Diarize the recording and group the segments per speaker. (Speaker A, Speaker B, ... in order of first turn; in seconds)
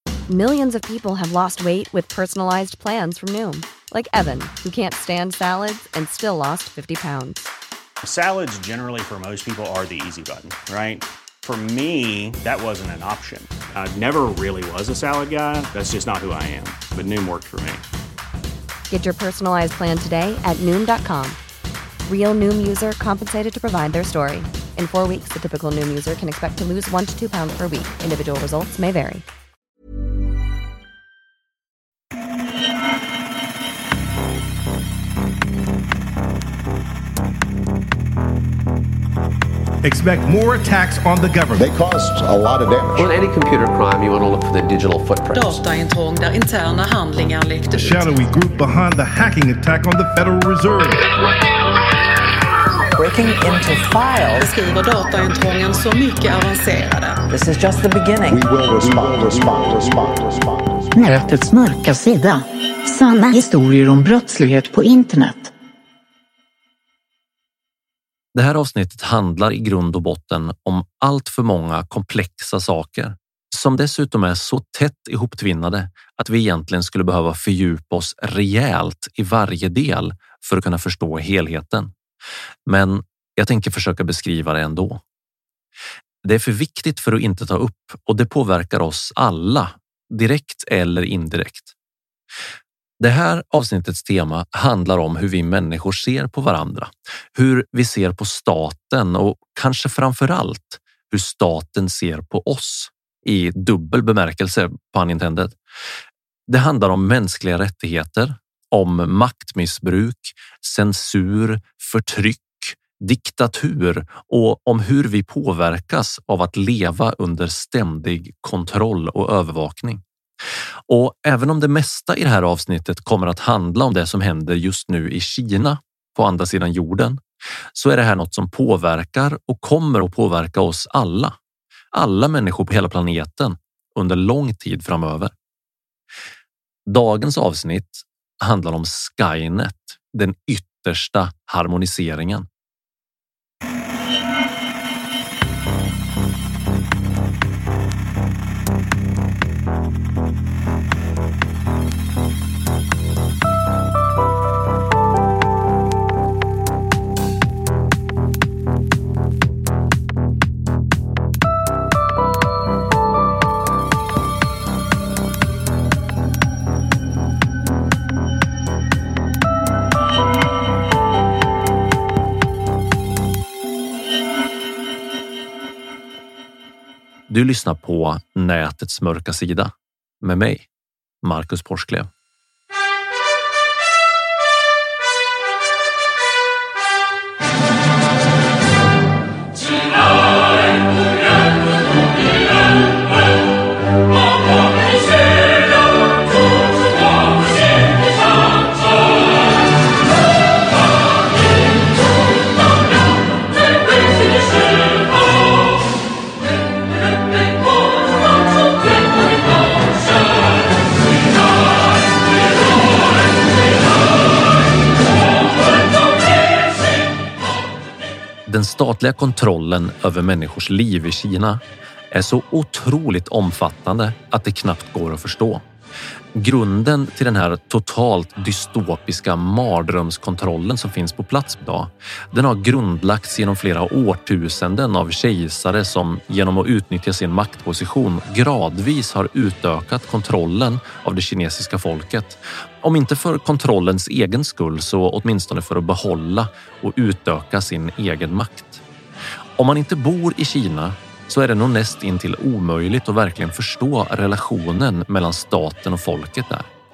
Speaker A: 0.3-7.5, 18.9-21.4, 22.0-29.2
Speaker B: 8.0-17.8
Speaker C: 39.8-41.7, 47.7-51.0
Speaker D: 41.5-43.1, 58.3-61.0
Speaker E: 43.0-45.6
Speaker F: 45.3-48.2, 54.3-57.2
Speaker G: 53.0-54.5, 57.3-58.4
Speaker H: 60.9-65.5
Speaker I: 68.3-81.9, 82.7-85.0, 86.2-91.7, 93.0-105.5, 106.5-120.0, 120.9-127.2, 127.7-131.3, 131.9-135.3, 136.9-142.5, 177.3-180.7, 181.2-182.1, 218.5-225.6, 226.3-248.8, 249.6-256.7